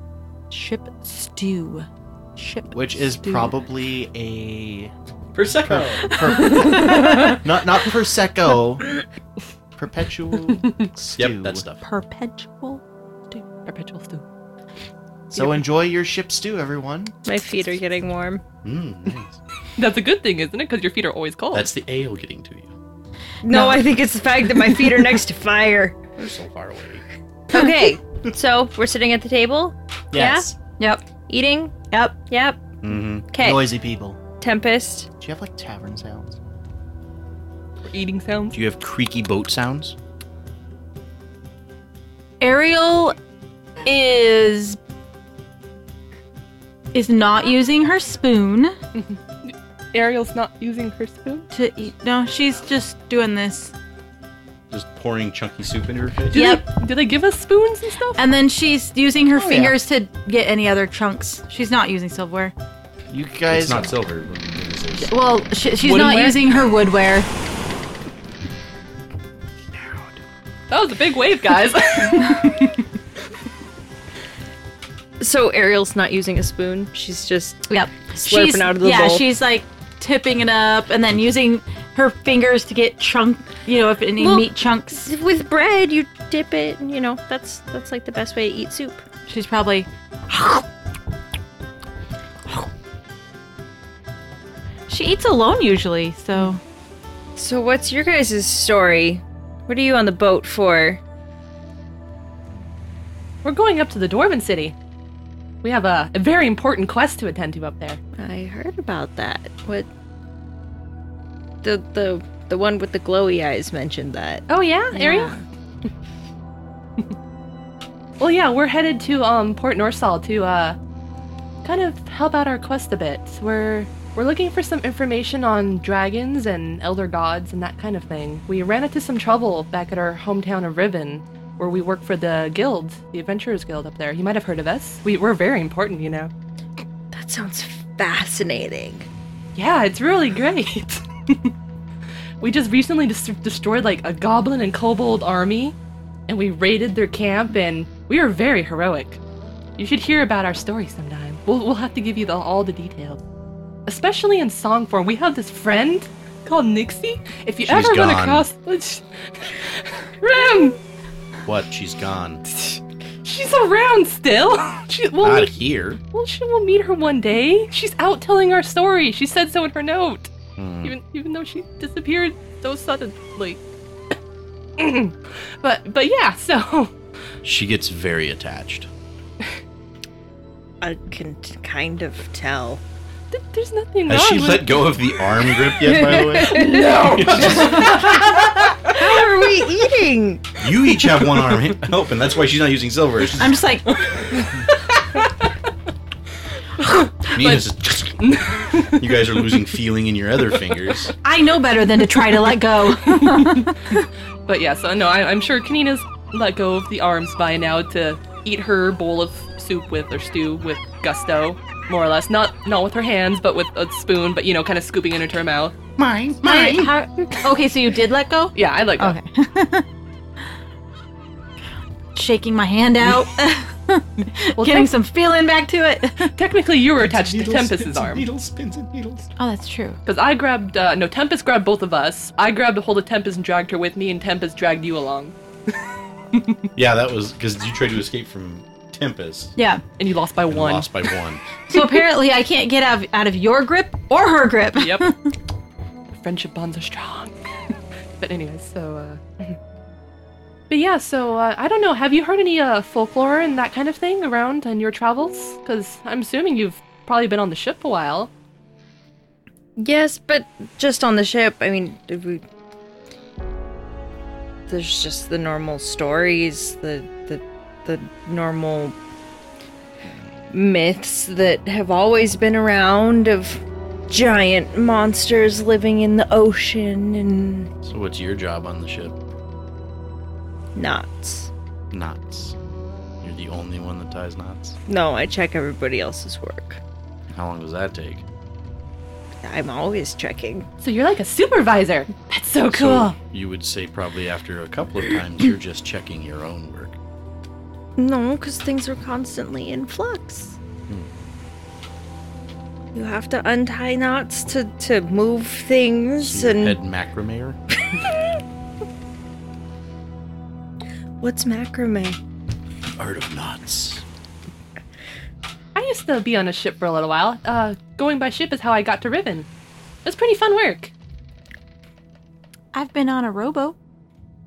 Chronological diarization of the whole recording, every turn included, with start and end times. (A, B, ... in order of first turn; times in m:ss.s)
0:00.5-0:03.5 A
0:02.7-0:04.9 B
0:05.3-0:06.2 C
0:05.6-0:08.9 B
0:06.1-0:07.4 A
0:06.6-0:07.4 D
0:09.8-0:11.6 B
0:11.2-0:11.8 C
0:11.8-0:12.8 A
0:13.3-0:14.2 D
0:15.3-0:17.2 B
0:17.2-0:18.4 E
0:18.6-0:19.4 C
0:19.8-0:21.7 D
0:21.5-0:22.7 C
0:23.4-0:26.0 E
0:23.4-0:23.9 A
0:26.2-0:27.0 C
0:27.5-0:30.5 E
0:30.1-0:30.6 B
0:30.8-0:31.0 A
0:31.3-0:31.7 E
0:31.9-0:32.2 A
0:32.3-0:32.7 E
0:32.8-0:33.3 C
0:33.3-0:33.7 E
0:33.4-0:34.2 B
0:34.4-0:35.1 E
0:35.2-0:36.4 B
0:37.8-0:38.6 D
0:38.5-0:40.0 C
0:42.4-0:43.2 A
0:43.8-0:44.8 A
0:46.9-0:48.7 A
0:49.0-0:51.4 D
0:51.5-0:53.7 A
0:54.7-0:56.4 C
0:56.3-0:56.7 A
0:56.3-0:58.2 D
0:58.2-1:02.5 A
0:59.4-0:59.8 B
1:03.1-1:03.9 B
1:03.5-1:05.1 C
1:05.0-1:07.3 A
1:05.8-1:06.4 D
1:10.7-1:12.8 D
1:15.2-1:19.2 E
1:17.7-1:25.0 A
1:24.2-1:29.0 E
1:29.3-1:30.7 A
1:34.9-1:36.6 A
1:37.4-1:41.0 E
1:43.4-1:44.7 D
1:45.6-1:48.0 D
1:48.2-1:49.9 E
1:51.6-1:55.4 E
1:54.5-1:55.4 D
1:58.2-2:00.8 D
2:01.6-2:16.3 D
2:17.1-2:19.1 E
2:19.5-2:21.5 D
2:22.4-2:25.8 D
2:26.3-2:29.2 D
2:29.8-2:33.2 D
2:33.8-2:40.8 D
2:37.6-2:38.5 C
2:41.4-2:42.4 C
2:42.5-2:45.5 D
2:45.2-2:46.0 C
2:46.1-2:50.3 D
2:50.6-2:50.9 C
2:50.8-2:53.6 D
2:54.8-2:56.9 D
2:57.4-2:58.9 C
3:00.8-3:02.8 E
3:03.3-3:04.9 D
3:04.1-3:09.0 C
3:05.7-3:08.1 E
3:05.8-3:06.6 B
3:06.5-3:08.3 D
3:09.0-3:10.6 E
3:10.6-3:13.6 C
3:13.4-3:13.9 A
3:14.1-3:15.3 D
3:16.8-3:19.5 D
3:17.3-3:18.4 C
3:19.0-3:21.1 C
3:21.2-3:24.1 A
3:23.0-3:23.7 D
3:24.5-3:35.8 D
3:36.0-3:36.9 C
3:36.4-3:39.8 A
3:38.5-3:39.2 D
3:42.1-3:46.3 A
3:44.6-3:44.9 D
3:46.2-3:48.3 D
3:47.0-3:49.3 C
3:49.4-3:50.0 A
3:50.0-3:55.7 D
3:56.3-3:56.6 D
3:56.8-3:59.5 C
3:59.6-3:59.8 A
4:00.0-4:01.2 D
4:00.5-4:01.4 C
4:01.7-4:02.0 D
4:01.7-4:05.3 A
4:04.8-4:05.1 D
4:06.1-4:07.3 D
4:08.2-4:09.6 D
4:10.7-4:18.3 D
4:19.8-4:22.4 E
4:24.7-4:29.0 E
4:30.5-4:37.7 E
4:37.8-4:39.1 C
4:40.7-4:41.5 E
4:41.9-4:42.6 C
4:43.2-4:44.8 C
4:44.9-4:46.8 E
4:47.3-4:48.2 C
4:49.4-4:50.7 E
4:50.8-4:53.2 D
4:52.7-4:57.0 C
4:58.0-5:00.6 E
5:02.9-5:06.8 E
5:06.2-5:07.6 C
5:11.2-5:12.2 E
5:13.0-5:14.0 C
5:15.7-5:19.5 D
5:20.0-5:20.9 D
5:22.7-5:23.8 A